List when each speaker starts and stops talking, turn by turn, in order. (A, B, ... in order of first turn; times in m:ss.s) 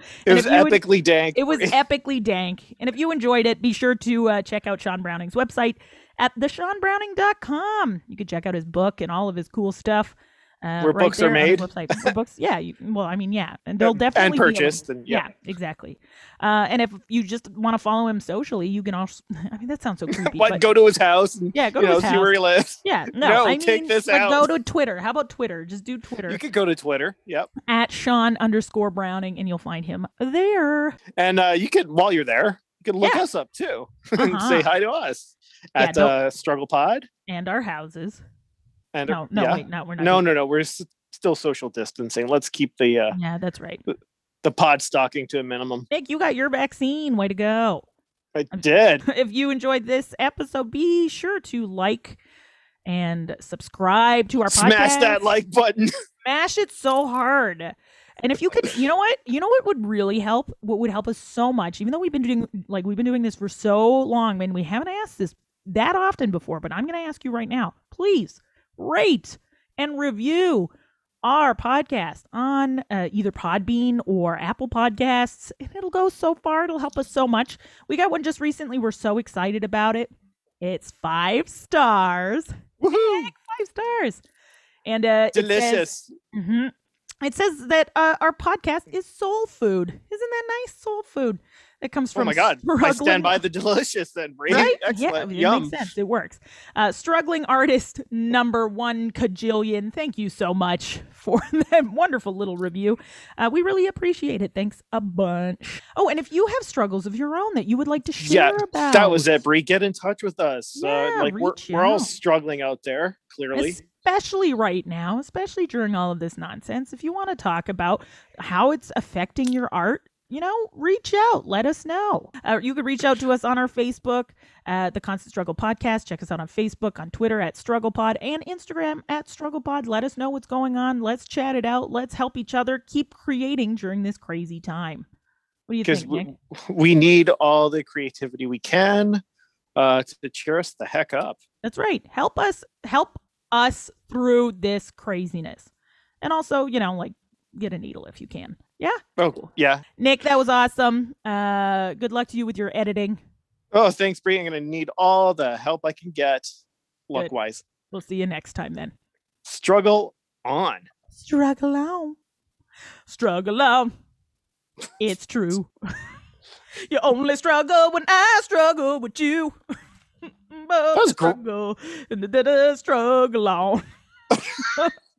0:00.3-0:01.8 A
0:00.3-0:20.6 B
0:10.8-0:12.1 A
0:13.8-0:15.3 A
0:20.3-0:24.5 A
0:21.5-0:26.4 B
0:26.3-0:27.5 A
0:27.7-0:31.0 B
0:31.2-0:37.1 A
0:33.0-0:33.2 B
0:34.2-0:34.7 B
0:35.8-0:36.2 B
0:37.3-0:38.2 B
0:38.9-0:43.2 A
0:39.1-0:40.3 B
0:43.1-0:43.8 B
0:44.4-0:45.9 A
0:45.9-0:47.8 B
0:48.4-0:49.0 A
0:48.5-0:52.2 B
0:52.9-0:55.3 B
0:54.5-0:55.9 A
0:56.2-1:10.7 B
1:11.2-1:24.2 B
1:22.8-1:23.3 A
1:24.8-1:33.4 B
1:25.3-1:26.1 A
1:32.1-1:35.9 A
1:34.5-1:49.4 B
1:48.2-1:53.8 A
1:50.8-1:52.1 B
1:53.5-2:15.1 B
2:15.7-2:16.3 B
2:15.8-2:19.2 A
2:19.8-2:21.4 A
2:21.6-2:25.7 B
2:26.2-2:33.2 B
2:29.2-2:29.8 A
2:33.7-2:36.5 A
2:37.1-2:37.6 A
2:37.9-2:38.9 B
2:39.4-2:40.9 A
2:41.2-2:42.2 B
2:43.1-2:43.9 B
2:45.0-2:46.2 B
2:46.8-2:49.6 B
2:50.5-2:53.8 B
2:50.9-2:51.4 A
2:54.4-2:54.6 A
2:54.6-2:54.9 B